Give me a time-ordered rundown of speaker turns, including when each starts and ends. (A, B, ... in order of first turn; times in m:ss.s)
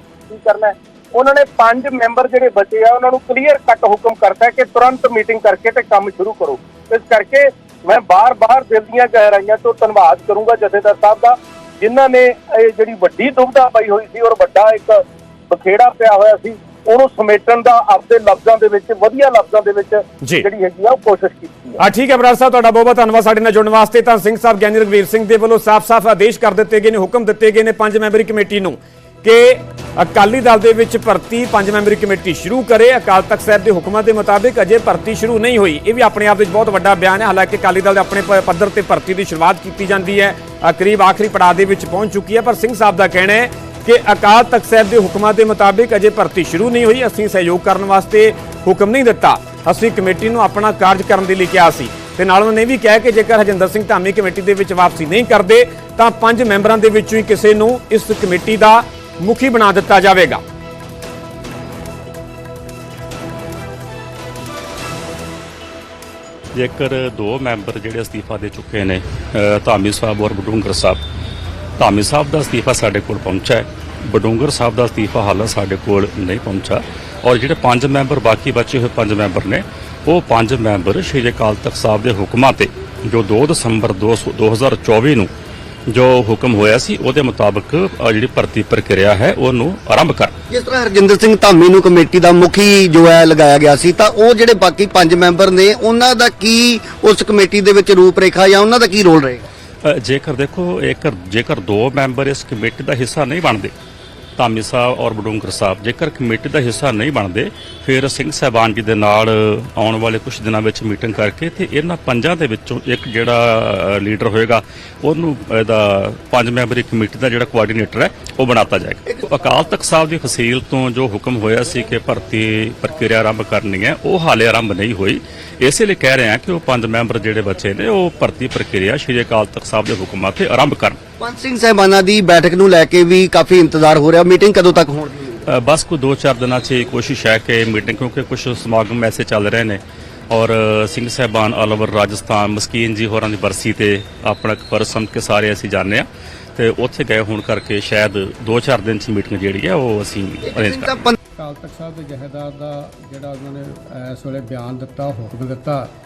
0:00.3-0:21.8 A
0:21.8-1:00.4 B
1:06.5-1:11.0 C
1:11.8-1:25.3 C
1:25.9-1:30.3 C
1:30.5-1:39.4 D
1:39.8-1:43.7 C
1:44.4-2:11.0 C
2:11.2-2:15.4 D
2:15.5-2:19.8 C
2:20.3-2:30.9 C
2:30.4-2:31.2 D
2:31.4-2:35.9 E